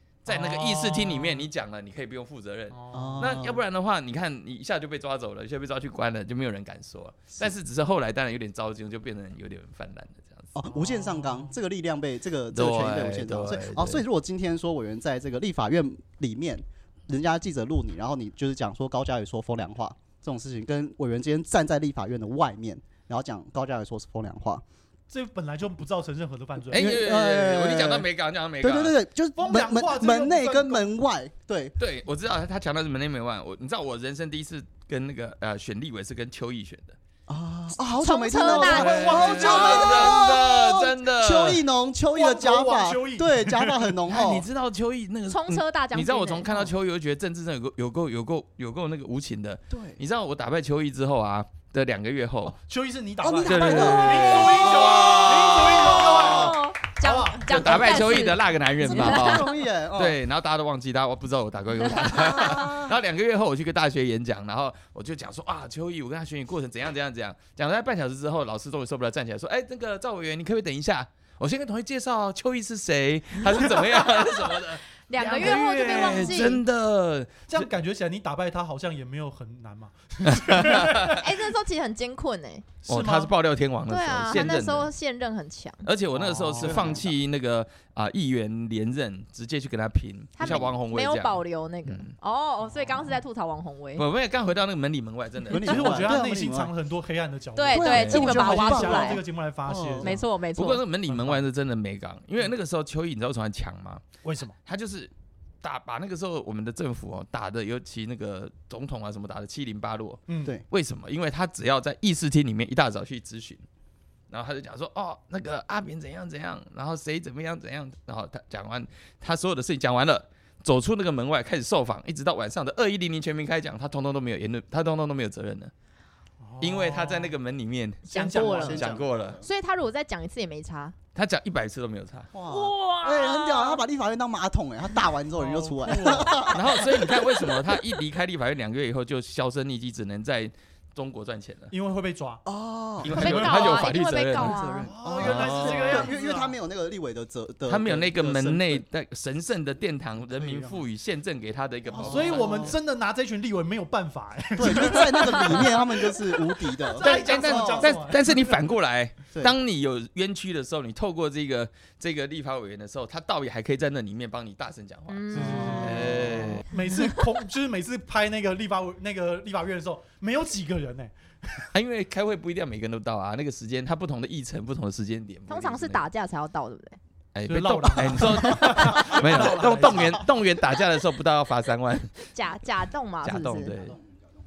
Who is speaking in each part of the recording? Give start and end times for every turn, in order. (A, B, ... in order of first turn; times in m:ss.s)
0:00.2-0:10.5 A
0:00.3-0:01.5 B
0:02.7-0:03.3 B
0:02.9-0:03.6 C
0:10.5-0:24.6 C
0:10.7-0:11.6 B
0:12.5-0:14.0 A
0:25.1-0:27.0 B
0:26.7-0:28.1 C
0:26.7-0:29.0 A
0:28.6-0:31.8 C
0:29.4-0:30.9 B
0:31.8-0:37.0 A
0:37.3-0:44.5 C
0:38.0-0:40.0 D
0:38.4-0:40.2 B
0:38.5-0:41.6 A
0:42.1-0:43.9 B
0:44.1-0:52.6 A
0:45.3-0:46.5 D
0:49.7-0:50.0 C
0:52.6-0:58.1 B
0:53.2-0:54.9 C
0:53.4-0:56.6 A
0:55.7-0:59.6 D
0:57.5-1:17.7 A
0:58.8-1:00.2 C
1:01.9-1:02.6 D
1:02.2-1:02.9 C
1:15.1-1:16.6 D
1:15.2-1:16.6 B
1:17.5-1:21.2 B
1:20.3-1:21.2 A
1:21.0-1:22.7 D
1:22.8-1:23.3 B
1:22.9-1:24.9 A
1:23.9-1:25.9 D
1:25.8-1:32.1 A
1:26.1-1:27.1 B
1:30.4-1:34.1 D
1:32.7-1:33.2 B
1:34.0-1:36.0 A
1:35.5-1:36.7 C
1:35.5-1:40.2 B
1:37.6-1:39.2 D
1:37.7-1:40.2 C
1:37.9-1:38.4 A
1:40.0-1:40.8 D
1:40.6-1:44.0 A
1:41.1-1:41.4 B
1:44.2-1:44.6 B
1:44.6-1:45.1 A
1:45.6-1:53.6 A
1:50.3-1:50.6 B
1:54.3-2:05.7 A
2:06.4-2:07.4 B
2:06.6-2:09.4 A
2:08.1-2:08.8 D
2:08.1-2:09.0 B
2:08.4-2:09.5 C
2:09.4-2:11.0 D
2:11.2-2:12.3 A
2:12.3-2:16.8 C
2:12.5-2:13.8 D
2:15.3-2:16.6 B
2:16.2-2:16.5 D
2:16.5-2:21.7 A
2:21.7-2:22.4 B
2:22.4-2:23.4 C
2:23.0-2:24.6 A
2:23.1-2:24.9 D
2:23.1-2:23.9 B
2:24.3-2:28.8 C
2:24.8-2:26.6 B
2:25.2-2:26.1 A
2:27.7-2:32.8 A
2:30.3-2:30.8 B
2:31.9-2:38.6 B
2:32.0-2:32.7 C
2:34.6-2:38.0 C
2:37.0-2:46.7 A
2:45.1-2:47.0 D
2:45.3-2:51.7 B
2:51.7-2:56.0 A
2:55.5-2:57.0 D
2:57.4-3:02.3 A
2:57.5-3:00.3 B
3:02.3-3:03.8 D
3:03.2-3:04.0 A